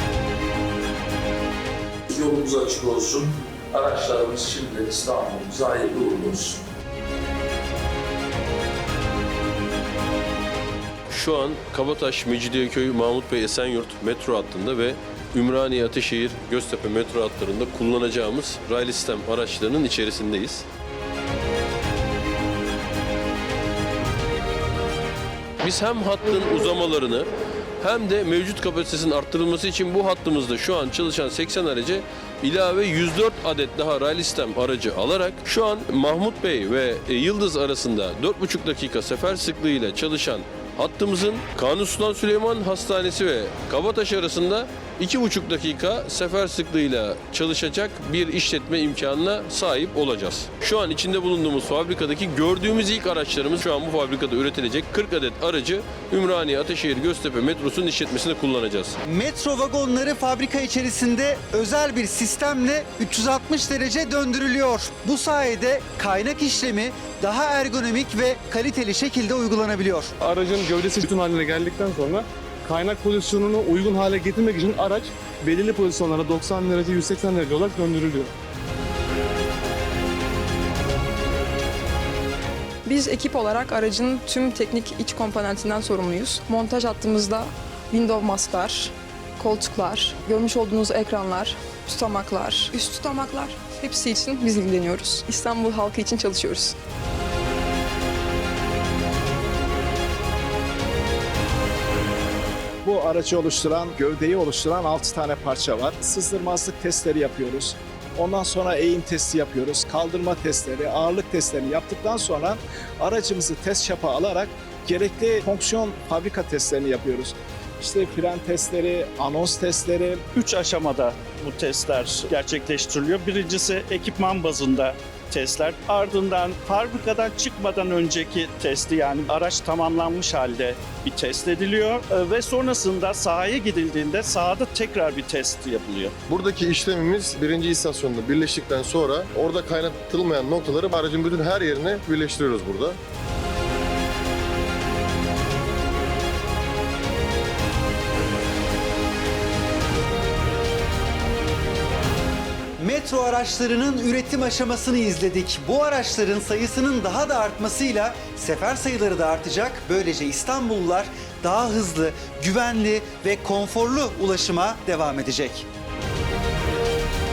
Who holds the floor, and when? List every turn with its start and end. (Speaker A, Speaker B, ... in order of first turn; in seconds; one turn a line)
Speaker A: 2.1-6.6
Speaker B: 11.1-20.6
Speaker B: 25.6-27.3
Speaker B: 27.8-59.0
Speaker C: 59.1-70.1
Speaker D: 70.3-78.3
Speaker E: 82.8-96.8
Speaker F: 102.8-120.2
Speaker G: 120.3-136.1
Speaker H: 136.3-143.0
Speaker C: 152.8-165.7